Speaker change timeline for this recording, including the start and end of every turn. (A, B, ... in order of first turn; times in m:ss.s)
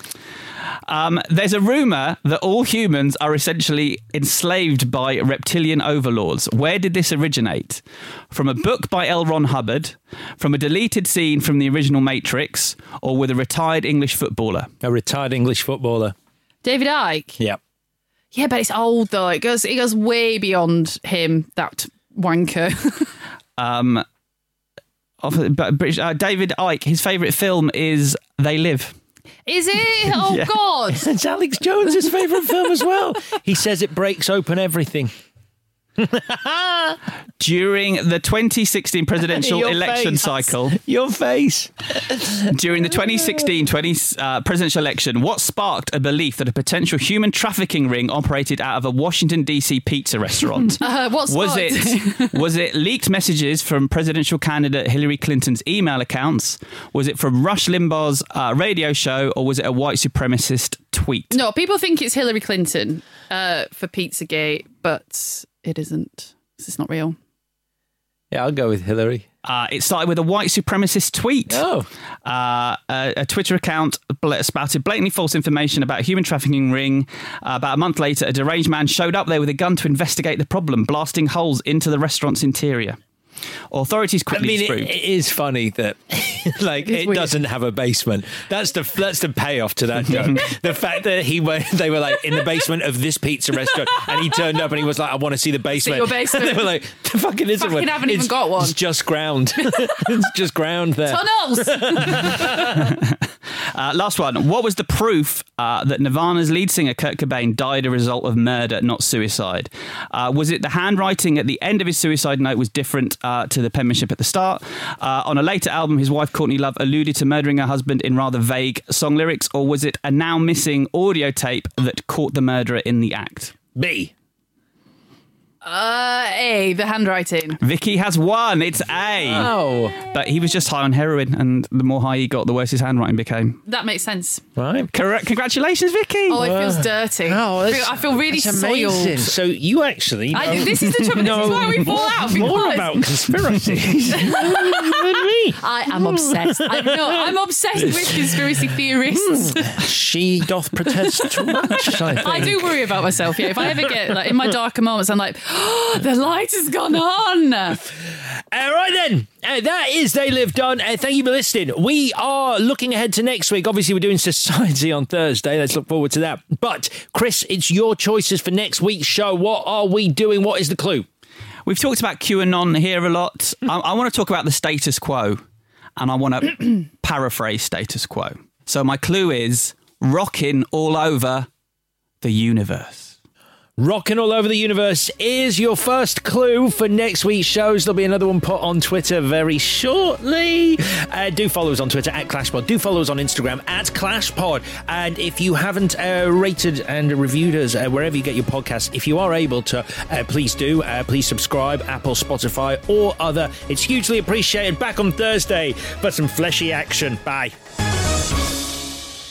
0:00.9-0:14.7 A
0:14.8-0:16.2 B
0:16.6-0:17.4 C
0:18.3-0:23.1 C
0:23.6-0:24.0 A
0:25.2-0:29.0 A
0:29.5-0:31.0 C
0:30.9-0:35.1 B
0:36.0-0:37.0 B
0:37.4-0:40.8 A
0:39.2-0:42.5 B
0:42.5-1:01.4 A
0:50.8-0:52.4 C
1:01.3-1:07.2 C
1:08.3-1:09.2 B
1:09.4-1:11.6 A
1:11.5-1:11.9 B
1:12.2-1:23.0 A
1:23.7-1:24.9 A
1:24.3-1:42.8 B
1:26.8-1:27.3 C
1:30.1-1:30.4 A
1:35.7-1:36.7 C
1:37.6-1:38.8 C
1:41.1-1:42.5 C
1:42.8-1:43.2 A
1:43.7-2:03.6 A
2:03.8-2:04.1 B
2:05.6-2:07.6 C
2:07.6-2:13.6 A
2:09.2-2:10.0 B
2:13.7-2:14.4 C
2:14.6-2:14.9 B
2:14.9-2:16.5 A
2:16.3-2:19.3 C
2:16.4-2:27.2 B
2:20.3-2:23.3 C
2:24.1-2:25.0 C
2:25.6-2:29.8 C
2:27.8-2:28.7 B
2:29.3-2:34.0 B
2:31.2-2:37.8 C
2:37.8-2:51.1 B
2:51.7-2:55.4 A
2:56.0-3:01.5 A
3:02.2-3:03.2 A
3:03.8-3:27.6 B